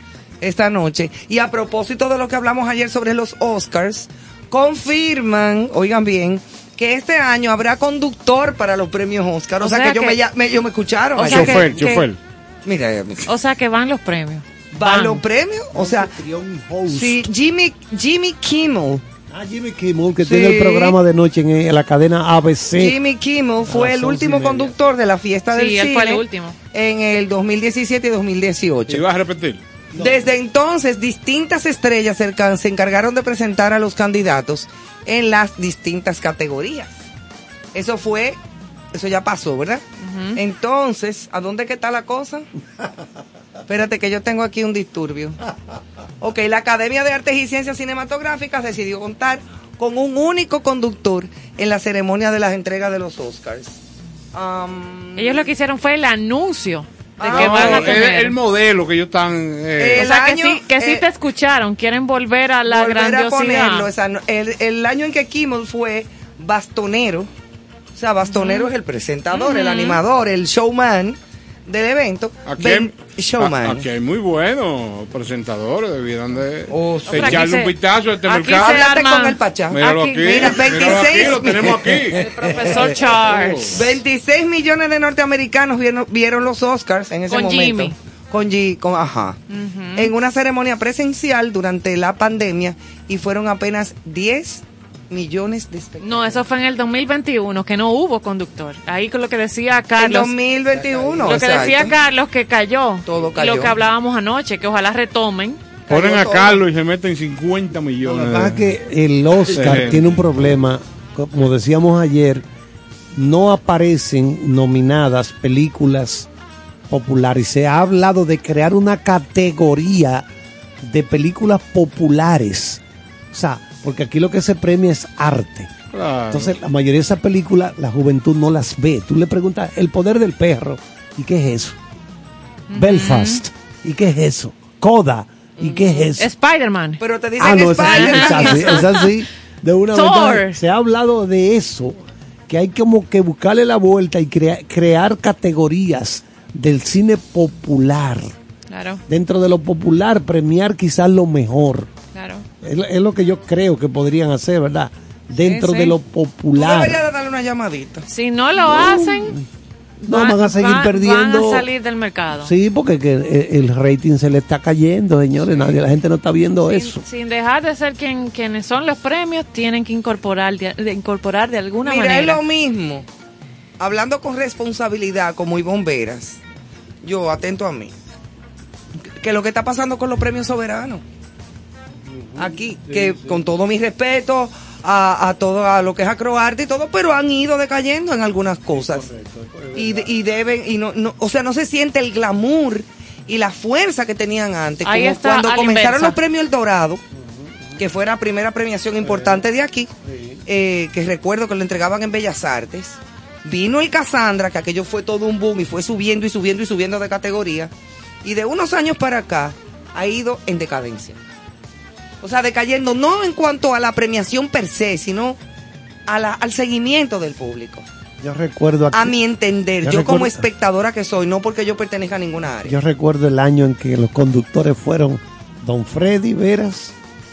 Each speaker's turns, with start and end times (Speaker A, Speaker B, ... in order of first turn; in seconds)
Speaker A: 0.4-11.7, 12.6-13.3, 14.7-16.1, 16.9-19.0, 20.2-20.9, 22.8-29.0, 29.9-36.9, 37.7-38.4, 38.9-42.5, 43.7-45.4, 46.2-53.8, 54.3-55.4, 57.2-58.0, 59.8-61.0, 62.6-67.3, 67.9-73.8, 76.7-77.4, 78.5-83.0, 83.7-89.4, 90.0-96.4, 100.0-101.9, 103.0-103.7, 105.9-106.6, 135.6-136.1, 137.0-138.8, 156.6-158.1, 171.8-173.1, 173.8-176.4, 177.0-177.9, 179.2-181.0, 182.4-189.1, 189.7-197.0, 197.8-199.9, 200.4-207.7, 208.2-211.2, 212.2-215.4, 216.1-217.8, 218.9-222.8
Speaker B: 9.6-10.2, 11.2-12.1, 13.2-15.2, 25.5-26.6, 40.0-40.4, 55.1-58.4, 60.0-63.9, 68.3-68.7, 69.3-70.0, 77.1-77.7, 78.2-80.5, 82.2-83.8, 87.3-87.9, 89.5-90.1, 96.0-100.3, 101.2-105.6, 132.7-133.4, 136.2-137.0, 137.7-139.1, 139.9-140.6, 148.7-149.0, 152.1-152.4, 155.4-155.9, 158.1-159.3, 160.0-162.5, 166.7-172.4, 194.8-196.2
Speaker C: 11.2-12.2, 28.9-29.6, 57.2-60.1, 72.5-78.9, 79.7-82.2, 83.0-83.9, 105.9-108.7, 109.5-110.2, 125.9-126.5
Speaker D: 15.7-17.3, 19.3-23.0, 23.6-24.7, 29.9-30.3, 100.8-101.5, 108.0-112.4, 113.1-116.3, 116.9-120.2, 120.8-125.7, 126.3-131.8, 132.7-136.3, 137.4-148.3, 149.1-151.9, 152.6-157.0, 158.6-159.4, 160.1-161.7, 162.4-167.0, 182.1-183.5, 188.7-190.1, 197.1-197.8, 199.0-199.4, 200.0-200.4, 218.2-219.2, 219.8-220.5, 222.6-226.9